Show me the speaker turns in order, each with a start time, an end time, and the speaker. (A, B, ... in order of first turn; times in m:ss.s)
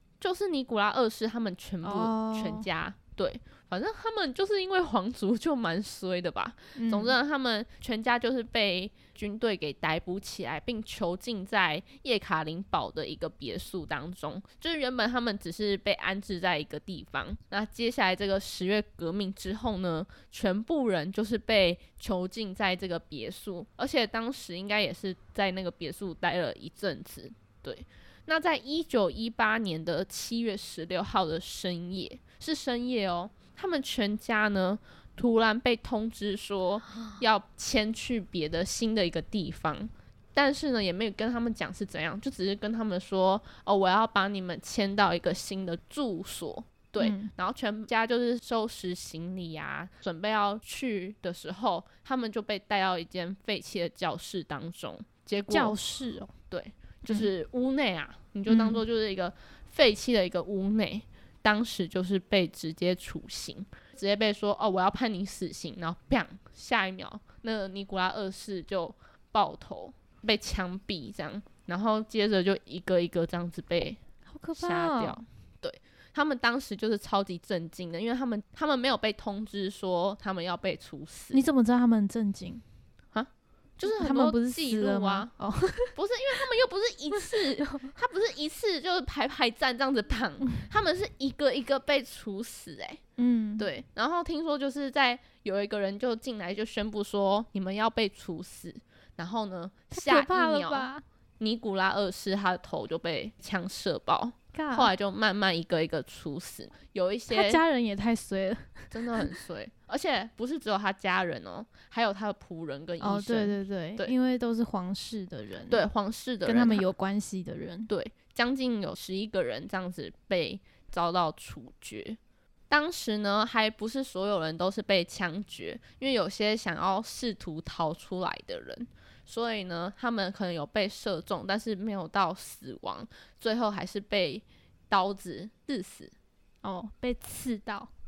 0:00.2-0:55.8 A
0:01.8-0:02.7 B
0:06.8-0:07.2 B
0:47.0-0:47.3 B
0:55.5-0:56.3 B
0:56.5-1:14.0 A
0:58.5-0:58.8 B
1:14.3-1:15.2 B
1:14.6-1:21.4 A
1:21.3-1:22.6 B
1:23.1-1:25.3 A
1:23.8-1:25.9 B
1:26.0-1:33.0 A
1:27.3-1:27.9 B
1:33.2-1:33.7 B
1:33.6-1:47.6 A
1:39.9-1:41.0 B
1:44.5-1:44.9 B
1:47.3-1:49.3 B
1:48.9-1:54.1 A
1:53.0-1:55.8 B
1:55.7-1:56.9 A
1:56.4-1:57.9 B
1:57.9-2:02.2 A
2:02.7-2:16.1 A
2:16.6-2:17.9 B